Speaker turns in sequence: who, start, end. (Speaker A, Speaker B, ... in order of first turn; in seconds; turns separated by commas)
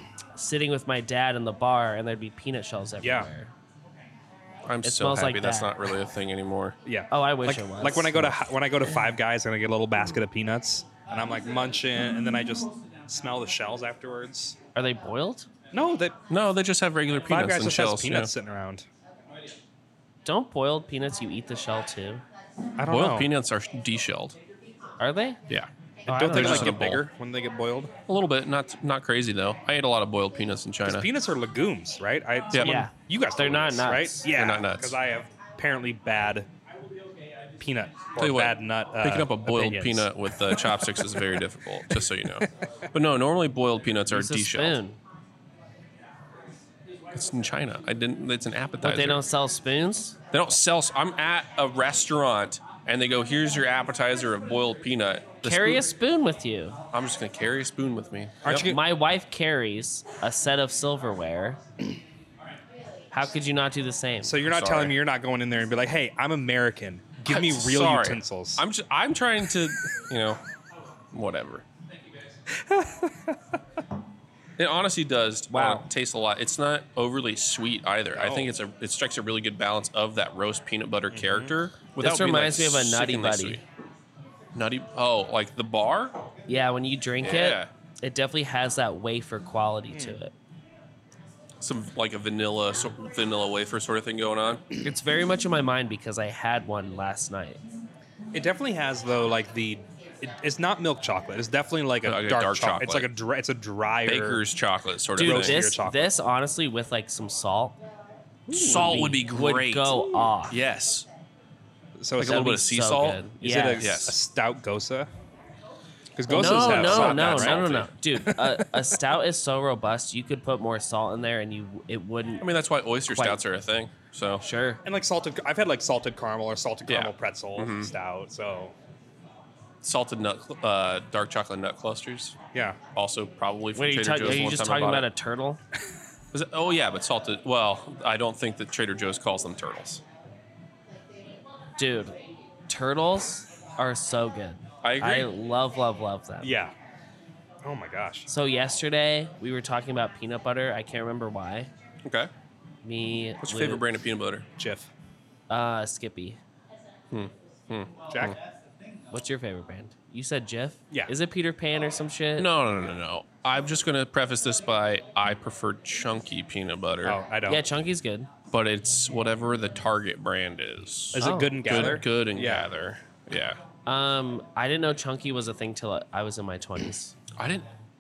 Speaker A: 0.4-3.5, Speaker B: 3.0-3.3, Speaker C: 4.7-6.8, Speaker A: 4.8-5.8, Speaker B: 6.8-14.6, Speaker A: 7.1-8.4, Speaker A: 14.8-15.5, Speaker B: 15.7-16.2, Speaker C: 16.3-18.3, Speaker B: 17.3-18.9, Speaker A: 20.2-22.2, Speaker B: 22.8-23.3, Speaker C: 22.9-24.4, Speaker A: 25.0-25.4, Speaker A: 26.1-26.8, Speaker B: 26.1-27.9, Speaker C: 26.3-27.1, Speaker C: 28.1-31.1, Speaker B: 30.9-36.5, Speaker C: 32.5-32.8, Speaker A: 32.6-34.3, Speaker C: 34.3-35.0, Speaker B: 37.6-41.3, Speaker C: 38.2-44.8, Speaker A: 44.1-45.0, Speaker C: 47.1-49.2, Speaker A: 48.8-50.2, Speaker C: 50.3-55.8, Speaker A: 55.4-56.8, Speaker C: 56.9-58.7, Speaker B: 58.4-58.8, Speaker A: 58.5-61.6, Speaker A: 63.1-64.4, Speaker B: 64.2-68.6, Speaker C: 64.5-65.0, Speaker C: 67.3-70.4, Speaker C: 71.1-71.7, Speaker B: 72.7-73.0, Speaker C: 74.6-83.6, Speaker A: 75.5-75.8, Speaker B: 78.2-78.5, Speaker B: 81.1-81.5, Speaker A: 82.0-83.6, Speaker C: 84.5-86.2, Speaker A: 86.5-90.3, Speaker C: 87.2-87.7, Speaker B: 89.9-90.2, Speaker C: 91.6-94.6, Speaker A: 94.8-97.6, Speaker B: 98.3-104.4, Speaker C: 102.0-103.1, Speaker C: 104.1-105.6, Speaker A: 105.2-107.8, Speaker B: 105.2-106.1, Speaker A: 108.5-110.5, Speaker C: 108.5-111.1, Speaker B: 108.6-108.9, Speaker B: 112.0-112.5, Speaker C: 112.2-113.2, Speaker A: 112.2-114.0, Speaker B: 113.4-115.1, Speaker C: 113.8-114.2, Speaker B: 116.2-118.6, Speaker C: 116.3-117.9, Speaker A: 116.3-122.5, Speaker C: 122.4-124.4, Speaker A: 123.1-123.4, Speaker A: 124.4-124.8, Speaker B: 124.8-128.7, Speaker C: 126.9-127.9, Speaker C: 129.8-132.4, Speaker B: 132.5-132.8, Speaker C: 132.9-135.1, Speaker A: 133.8-135.6, Speaker C: 136.3-140.0, Speaker A: 141.8-142.2, Speaker A: 142.7-146.5, Speaker C: 144.8-145.3, Speaker B: 146.4-146.7, Speaker B: 147.6-148.3, Speaker A: 148.3-151.7, Speaker C: 152.1-152.3, Speaker A: 152.8-153.8, Speaker C: 153.4-154.5, Speaker B: 154.6-154.9, Speaker A: 155.5-156.4, Speaker C: 157.1-158.4, Speaker B: 158.1-158.4, Speaker A: 159.1-162.5, Speaker C: 162.4-167.2, Speaker B: 167.1-167.6, Speaker A: 167.5-168.3, Speaker C: 168.5-173.6, Speaker B: 171.1-172.7, Speaker A: 171.2-172.0, Speaker A: 173.9-177.2, Speaker C: 177.3-177.7